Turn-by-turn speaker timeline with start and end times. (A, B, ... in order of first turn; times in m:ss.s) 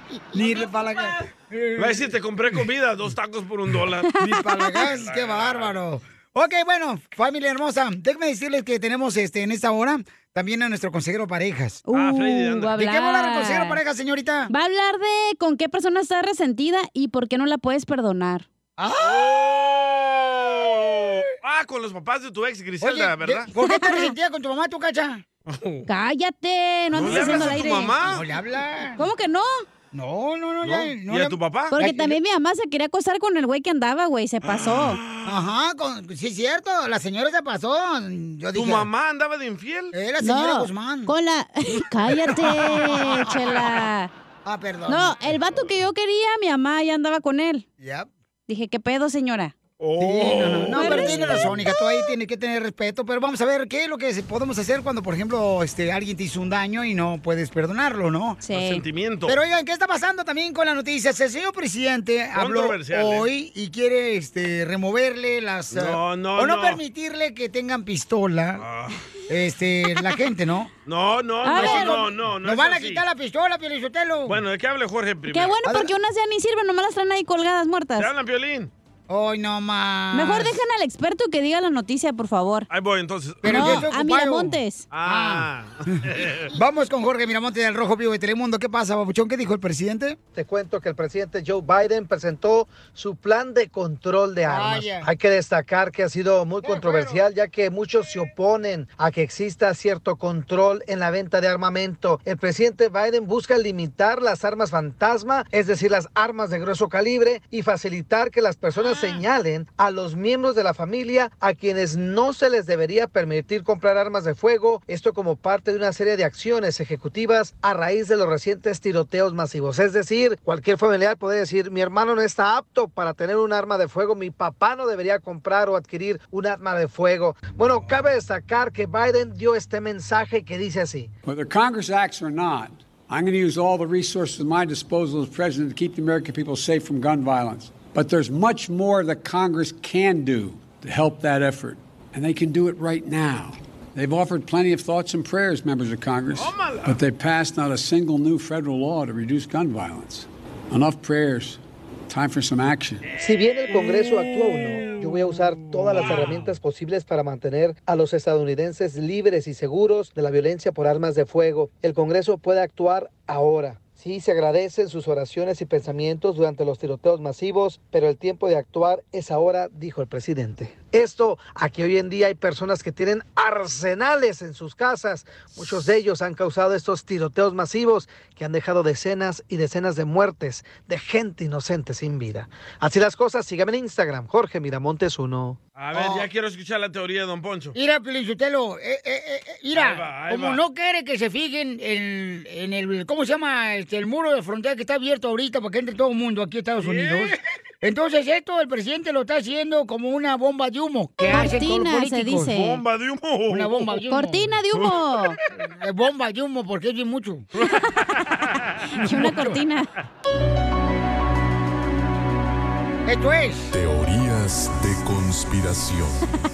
0:00.3-0:02.0 A
0:01.8-0:04.1 B
0:04.1-0:04.8 C
0:04.2-0:11.8 A
0:04.9-0:05.8 B
0:11.9-0:13.8 C
0:11.9-0:12.8 B
0:12.8-0:14.5 A
0:14.5-0:18.5 C
0:18.8-0:19.3 A
0:19.0-0:23.5 B
0:22.8-0:25.2 A
0:23.6-0:24.1 C
0:25.5-0:25.9 B
0:25.9-0:28.0 C
0:26.9-0:28.2 B
0:28.0-0:29.0 A
0:29.0-0:29.7 C
0:29.9-0:32.2 A
0:30.6-0:31.8 B
0:31.7-0:35.0 C
0:34.4-0:35.4 B
0:35.2-0:38.9 A
0:38.5-0:39.9 B
0:39.9-0:41.1 A
0:40.2-0:44.1 C
0:44.4-0:45.2 A
0:44.9-0:47.7 C
0:47.8-0:48.1 A
0:48.5-0:49.5 C
0:49.8-0:51.6 B
0:50.0-0:58.4 A
0:50.7-0:51.5 C
0:58.4-0:58.8 C
0:58.5-0:59.4 B
0:59.3-1:08.6 A
1:02.4-1:03.3 B
1:05.7-1:06.8 B
1:08.6-1:09.0 B
1:09.3-1:10.7 A
1:10.9-1:13.0 B
1:11.4-1:12.1 C
1:11.5-1:14.4 A
1:14.3-1:15.6 B
1:15.3-1:18.1 C
1:15.7-1:15.9 A
1:18.0-1:18.7 B
1:19.1-1:20.6 A
1:20.1-1:22.7 C
1:22.7-1:23.9 B
1:23.4-1:25.5 A
1:23.4-1:24.9 C
1:24.9-1:26.5 B
1:26.5-1:30.2 A
1:30.3-2:11.1 D
1:34.5-1:35.1 A
1:36.7-1:37.1 A
2:11.2-2:33.0 E
2:26.4-2:27.0 B
2:33.2-3:05.6 D
2:35.9-2:36.5 B
3:05.8-3:07.8 B
3:05.9-3:06.3 A
3:07.8-3:22.5 A
3:09.7-3:10.6 B
3:16.8-3:17.4 B
3:21.3-3:22.8 C
3:22.4-3:23.9 B
3:23.5-3:24.5 A
3:24.1-3:25.4 C
3:24.7-3:25.3 B
3:25.8-3:27.5 A
3:27.6-3:28.2 C
3:29.0-3:29.9 C
3:29.2-3:29.5 A
3:33.1-3:33.7 A
3:33.7-3:36.2 F